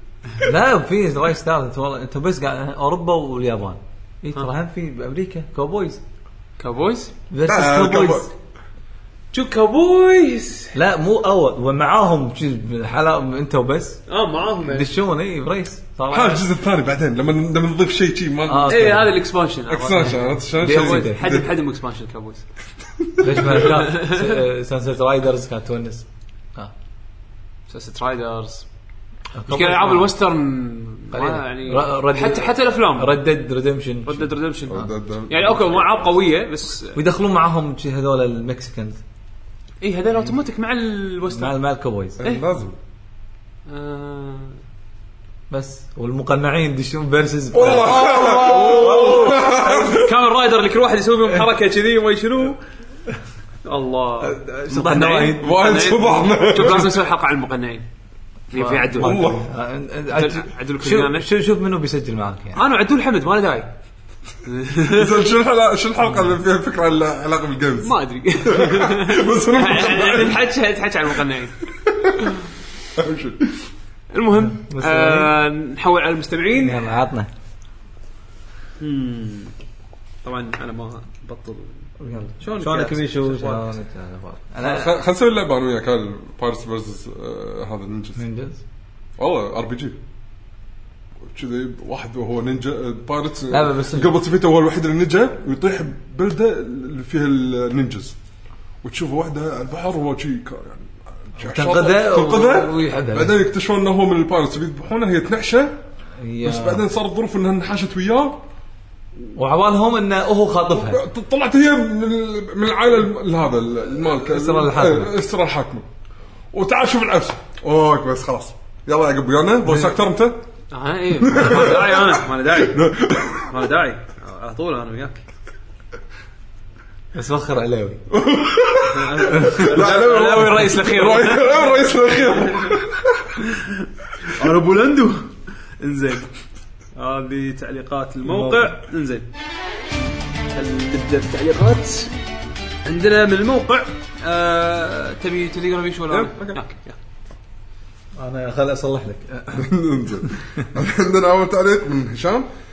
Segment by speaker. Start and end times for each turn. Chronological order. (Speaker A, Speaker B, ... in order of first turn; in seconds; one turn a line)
Speaker A: 0.4-6.0
Speaker B: 6.6-7.1
Speaker A: 7.3-8.3
Speaker C: 7.5-8.3
Speaker B: 9.3-10.8
Speaker A: 10.7-14.0
Speaker B: 14.1-14.9
Speaker A: 14.7-16.5
Speaker C: 16.1-19.0
Speaker A: 18.5-19.1
Speaker B: 18.7-22.4
Speaker C: 19.7-21.5
Speaker A: 20.6-21.3
Speaker C: 23.2-23.7
Speaker A: 23.2-26.7
Speaker B: 23.4-24.4
Speaker B: 27.7-28.7
Speaker A: 29.4-30.1
Speaker B: 29.5-33.1
Speaker A: 31.1-34.9
Speaker B: 34.0-37.0
Speaker C: 34.7-36.1
Speaker A: 37.0-39.0
Speaker B: 39.8-41.5
Speaker A: 41.3-42.2
Speaker C: 42.2-42.8
Speaker B: 43.7-44.6
Speaker A: 45.5-49.5
Speaker C: 47.5-50.1
Speaker B: 47.9-52.6
Speaker B: 53.6-57.9
Speaker A: 54.2-55.6
Speaker C: 55.4-57.0
Speaker B: 58.5-59.2
Speaker A: 58.5-62.6
Speaker C: 59.0-59.5
Speaker B: 60.1-61.3
Speaker B: 62.5-63.7
Speaker B: 64.4-65.3
Speaker C: 64.9-70.5
Speaker B: 67.8-71.6
Speaker C: 71.8-72.4
Speaker C: 73.0-73.6
Speaker B: 74.1-76.9
Speaker A: 74.4-75.3
Speaker A: 76.6-77.3
Speaker B: 78.8-79.5
Speaker B: 80.2-81.9
Speaker A: 82.0-85.0
Speaker B: 82.4-83.6
Speaker C: 84.6-88.2
Speaker A: 88.2-88.6
Speaker C: 89.2-90.0
Speaker C: 91.3-98.2
Speaker A: 93.5-94.1
Speaker C: 98.8-105.7
Speaker A: 101.4-103.4
Speaker A: 106.2-106.8
Speaker C: 106.4-108.4
Speaker A: 109.3-111.0
Speaker C: 110.7-115.8
Speaker A: 114.0-115.1
Speaker C: 116.5-120.4
Speaker A: 119.7-119.9
Speaker B: 120.7-125.2
Speaker C: 121.2-123.5
Speaker A: 127.1-128.0
Speaker C: 128.1-133.3
Speaker B: 128.8-132.8
Speaker A: 129.3-129.7
Speaker B: 133.4-136.3
Speaker B: 137.0-139.3
Speaker A: 138.2-138.7
Speaker B: 140.5-142.1
Speaker B: 142.8-147.0
Speaker C: 146.1-146.6
Speaker A: 148.2-150.4
Speaker C: 149.6-152.5